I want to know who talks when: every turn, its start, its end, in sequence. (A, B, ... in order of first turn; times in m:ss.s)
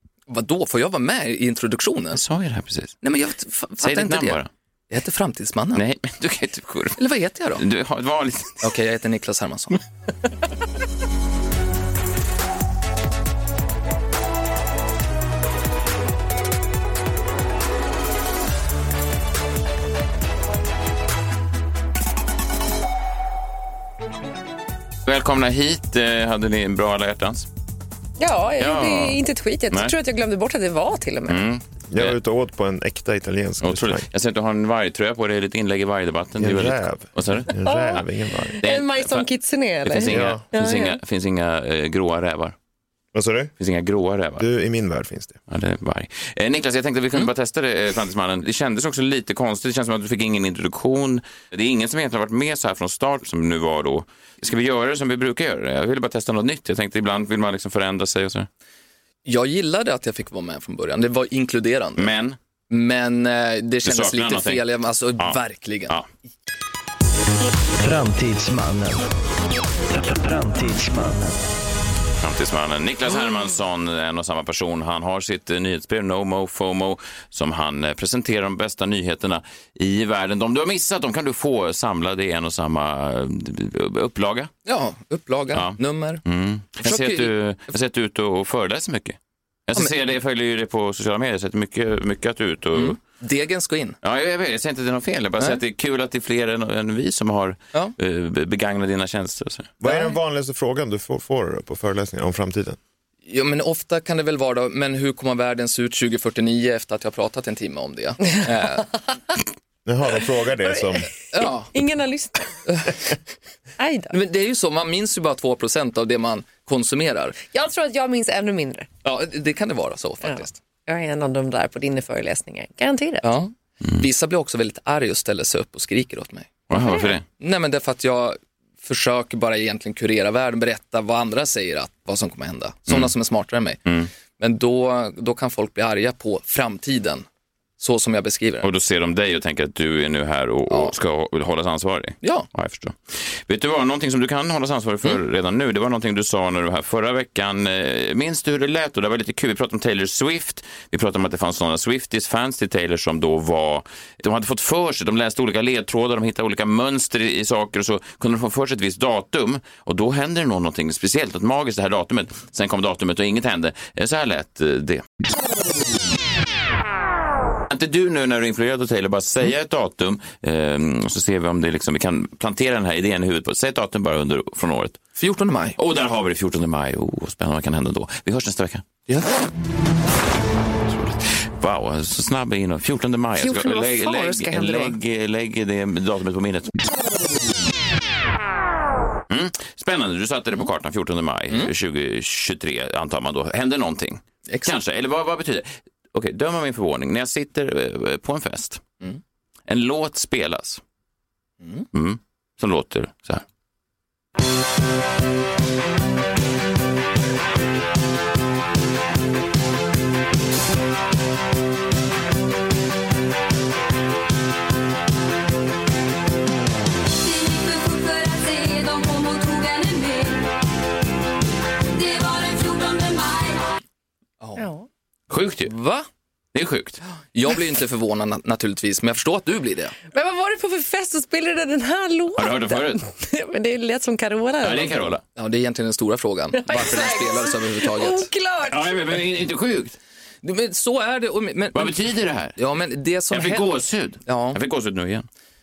0:00.3-0:02.2 A
0:02.2-0:03.0 B
0:03.0-0:04.4 A
0:03.8-0:04.5 B
0:04.9-0:05.8 A
0:05.8-0:07.0 B
0:07.0-0:07.6 A
0:07.6-0:08.7 B
0:08.6-0:09.8 A
0:25.0-0:27.5 B
0:28.2-0:31.4 C
0:28.6-0:29.2 B
0:31.3-0:32.2 B
0:31.9-0:34.1 D
0:33.6-0:37.5 B
0:36.4-0:38.6 D
0:37.6-0:41.0 C
0:38.6-0:39.3 B
0:39.8-0:42.6 B
0:40.0-0:40.4 D
0:43.1-0:43.5 D
0:43.6-0:44.5 B
0:44.4-0:45.4 D
0:45.5-0:58.5 B
0:59.2-1:02.1 A
1:02.0-1:02.4 B
1:02.7-1:06.0 A
1:03.8-1:04.6 B
1:05.2-1:06.1 B
1:07.8-1:09.1 E
1:09.9-1:11.4 E
1:12.2-1:24.5 B
1:24.7-1:26.2 A
1:25.5-1:33.0 B
1:26.8-1:27.3 A
1:32.8-1:34.0 A
1:34.0-1:39.7 B
1:39.8-1:42.8 D
1:39.8-1:40.2 A
1:43.3-1:48.9 A
1:49.9-1:51.1 D
1:51.3-1:51.7 A
1:51.7-1:52.6 C
1:52.7-1:53.0 A
1:53.8-1:54.2 C
1:54.1-1:57.4 A
1:57.5-1:58.9 C
1:59.0-2:00.6 A
2:00.3-2:03.3 C
2:03.2-2:06.6 A
2:06.7-2:07.2 B
2:07.3-2:13.8 A
2:14.4-2:17.3 A
2:17.8-2:18.7 A
2:18.6-2:45.0 B
2:22.2-2:22.5 A
2:47.7-2:55.0 B
2:55.2-2:55.8 A
2:55.8-2:58.8 B
3:00.9-3:06.7 B
3:03.4-3:05.0 C
3:09.3-3:18.8 B
3:14.5-3:14.7 A
3:19.7-3:20.8 B
3:21.6-3:21.9 A
3:21.9-3:23.4 B
3:37.1-3:40.6 F
3:41.9-3:43.6 F
3:44.6-3:44.9 C
3:45.3-3:45.7 B
3:45.7-3:46.1 A
3:46.5-3:47.0 B
3:47.3-3:50.0 A
3:50.1-3:55.1 C
3:52.4-3:53.0 B
3:54.6-3:55.2 B
3:55.4-3:58.3 A
3:56.6-3:59.0 C
3:58.6-4:00.0 B
4:00.4-4:02.0 A
4:01.7-4:02.6 B
4:02.6-4:03.7 A
4:03.3-4:05.3 B
4:04.3-4:04.6 A